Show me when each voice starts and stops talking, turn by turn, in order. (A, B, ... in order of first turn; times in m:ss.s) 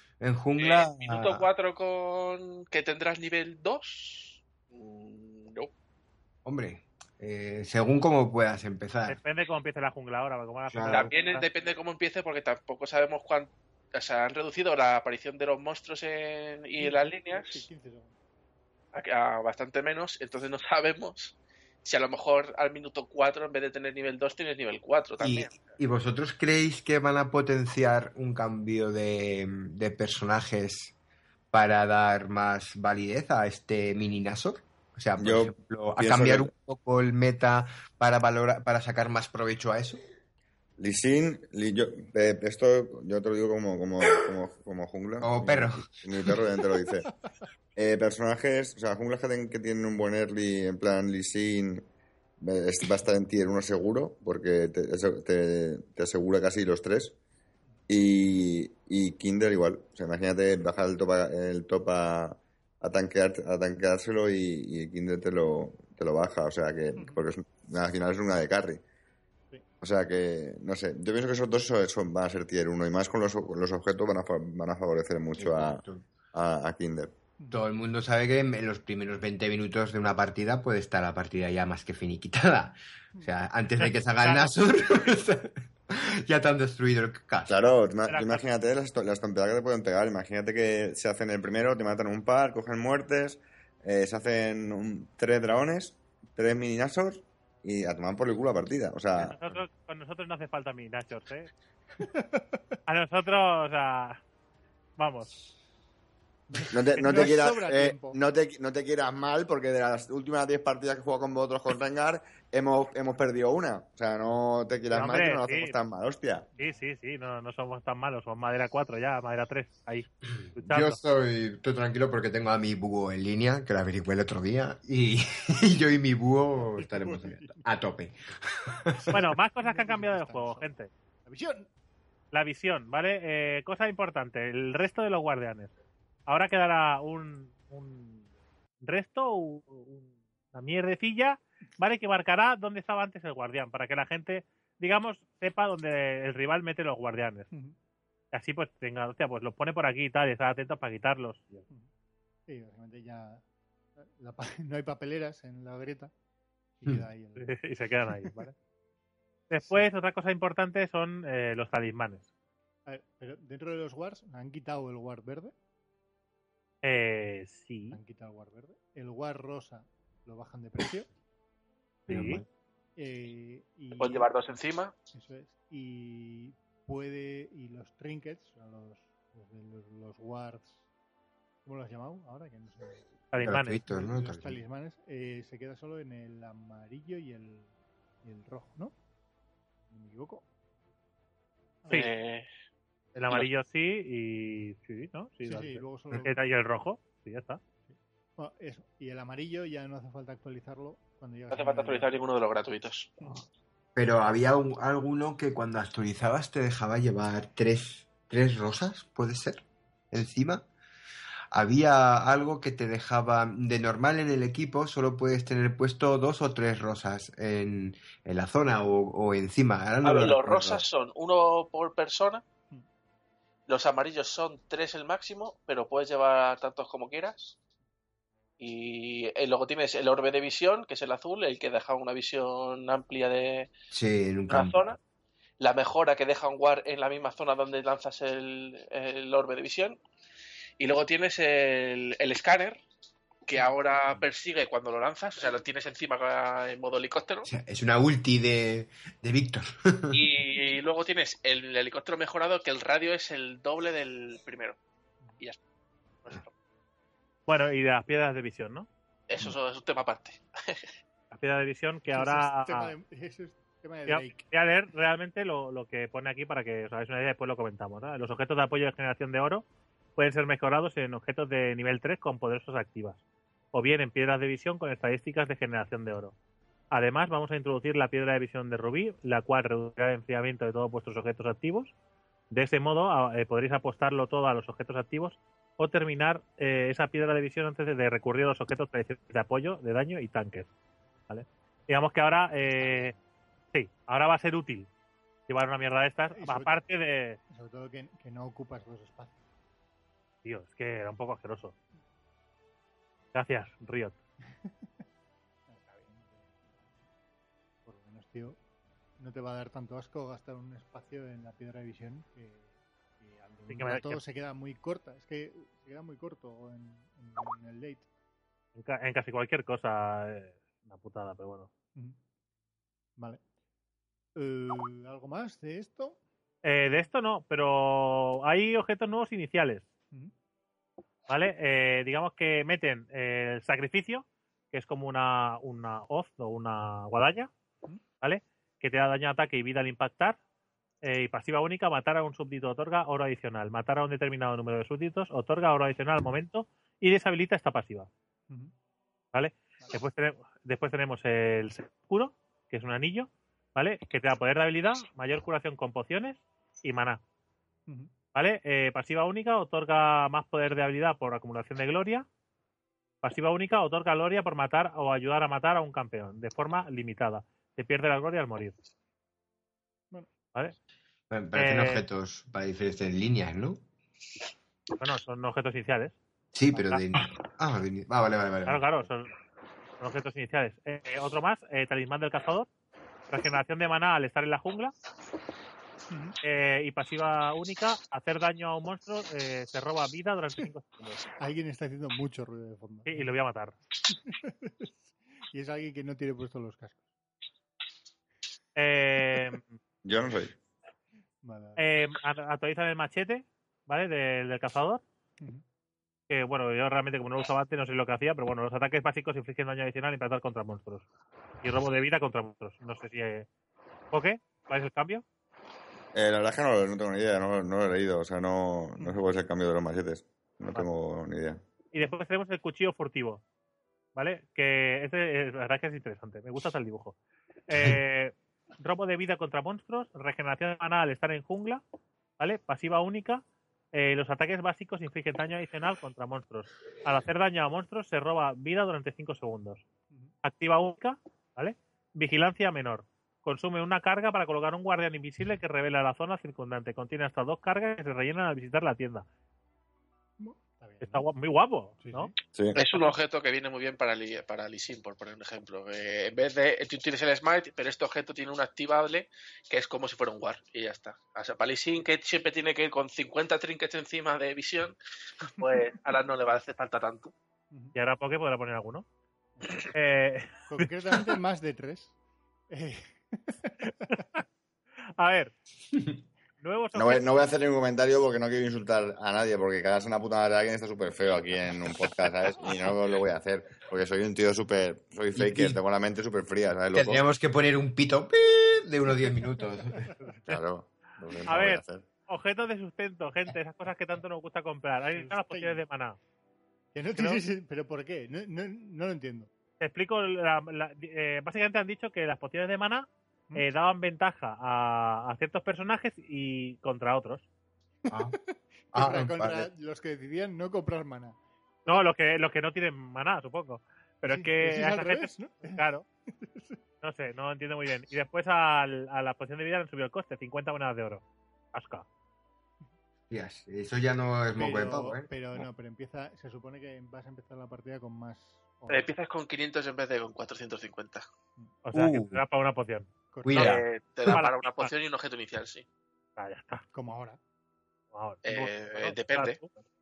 0:00.2-0:01.4 A
0:00.6-0:05.7 B
0:06.4-0:09.2 A
0:09.1-0:11.4 C
0:10.7-0:11.1 A
0:10.9-0:17.7 B
0:16.8-0:18.2 D
0:18.9-0:25.6 B
0:25.2-0:31.0 A
0:31.5-0:40.0 A
0:35.2-0:36.5 E
0:40.8-0:47.1 E
0:45.2-0:46.4 A
0:47.8-0:51.9 E
0:52.4-0:57.2 E
0:57.9-1:08.8 E
1:07.0-1:07.2 D
1:09.8-1:15.8 E
1:15.4-1:16.1 A
1:16.3-1:17.1 E
1:17.5-1:27.6 A
1:24.2-1:24.5 C
1:27.5-1:39.6 E
1:28.1-1:28.5 C
1:39.2-1:41.5 C
1:42.0-1:42.6 D
1:42.9-1:44.2 C
1:45.0-1:45.4 C
1:46.5-1:48.2 D
1:46.7-1:56.5 E
1:54.9-1:55.8 C
1:56.6-2:01.0 C
2:00.4-2:09.2 A
2:06.8-2:07.6 D
2:08.9-2:10.7 D
2:09.1-2:10.9 C
2:11.2-2:11.7 D
2:12.3-2:15.7 C
2:16.3-2:18.2 C
2:18.8-2:27.5 C
2:28.3-2:31.6 C
2:32.5-2:33.4 D
2:34.0-2:36.1 D
2:36.8-2:37.5 D
2:37.4-2:38.5 C
2:39.5-2:42.3 C
2:42.9-2:45.5 D
2:46.8-2:48.0 C
2:47.9-2:51.1 D
2:52.1-2:52.4 C
2:52.1-2:52.5 A
2:53.0-2:54.3 D
2:53.9-2:54.9 B
2:55.1-3:00.8 D
3:01.6-3:03.0 D
3:03.3-3:03.8 C
3:03.4-3:04.6 A
3:03.9-3:07.7 D
3:08.2-3:08.9 D
3:09.9-3:10.4 D
3:11.8-3:12.1 D
3:11.9-3:12.5 B
3:13.2-3:17.6 C
3:15.4-3:16.4 D
3:17.9-3:22.1 D
3:21.5-3:23.2 B
3:24.0-3:30.6 A
3:31.5-3:40.8 A
3:40.0-3:42.4 B
3:43.7-3:47.6 B
3:48.6-3:53.7 B
3:53.9-3:54.8 A
3:54.5-3:55.0 B
3:55.6-4:00.0 B
4:00.8-4:02.8 B
4:03.5-4:07.5 B
4:07.4-4:10.3 A
4:10.1-4:14.8 B
4:16.2-4:16.5 B
4:17.5-4:18.9 C
4:19.3-4:20.9 B
4:21.3-4:22.9 C
4:22.1-4:24.4 D
4:24.1-4:33.2 C
4:33.7-4:36.4 C
4:36.9-4:41.9 C
4:42.5-4:50.7 C
4:51.3-4:53.2 C
4:52.8-4:53.1 D
4:53.7-4:54.9 C
4:55.5-4:57.4 C
4:56.3-4:56.8 D
4:57.5-4:59.4 D
5:00.4-5:01.8 C
5:03.3-5:04.2 C
5:05.7-5:06.9 D
5:07.8-5:08.6 D
5:09.2-5:18.1 D
5:13.7-5:14.2 C
5:18.8-5:21.7 C
5:23.2-5:23.4 D
5:24.4-5:26.2 D
5:26.6-5:29.9 C
5:31.3-5:37.5 C
5:38.2-5:40.4 C
5:41.0-5:48.1 C
5:49.3-5:57.2 C
5:58.3-6:02.3 C
6:03.2-6:08.8 C
6:11.3-6:13.8 A
6:11.6-6:12.0 C
6:15.0-6:16.2 C
6:16.5-6:18.9 A
6:16.7-6:17.0 C
6:18.7-6:19.3 C
6:20.0-6:22.7 C
6:23.3-6:24.9 C
6:26.1-6:26.4 D
6:26.4-6:31.3 C
6:31.4-6:33.4 D
6:33.1-6:33.8 C
6:34.1-6:34.9 D
6:35.5-6:37.1 D
6:38.8-6:39.8 C
6:40.0-6:40.6 E
6:41.4-6:41.8 D
6:41.8-6:45.0 C
6:46.3-6:51.1 C
6:51.6-6:53.5 C
6:54.1-6:55.2 C
6:56.1-7:01.6 E
7:01.9-7:03.4 C
7:04.2-7:07.2 C
7:07.7-7:11.8 C
7:12.4-7:19.8 C
7:20.4-7:29.3 C
7:30.4-7:31.2 D
7:31.0-7:33.1 C
7:32.0-7:32.3 D
7:32.7-7:47.3 B
7:47.9-7:49.1 C
7:49.9-7:50.8 C
7:50.7-7:52.1 D
7:52.7-7:53.8 D
7:54.1-7:54.4 C
7:55.2-7:55.5 C
7:56.6-7:57.3 C
7:56.9-8:07.2 E
8:05.4-8:05.8 A
8:06.9-8:10.1 A
8:09.9-8:10.4 D
8:10.5-8:12.0 E
8:11.5-8:16.2 C
8:15.2-8:15.8 D
8:16.9-8:19.5 D
8:17.2-8:17.4 C
8:19.8-8:27.5 C
8:28.1-8:31.4 D
8:28.1-8:28.4 A
8:28.9-8:29.7 A
8:31.9-8:36.1 C
8:34.3-8:35.8 D
8:36.4-8:36.8 D
8:37.0-8:42.1 C
8:43.3-8:45.7 A
8:44.6-8:49.1 D
8:48.9-8:51.2 B
8:51.8-8:54.9 C
8:51.9-8:52.4 A
8:53.3-8:53.7 D
8:53.4-8:54.4 A
8:53.6-8:55.9 B
8:56.4-8:56.9 C
8:56.9-8:57.4 D
8:58.1-8:59.8 C
8:58.4-8:59.6 B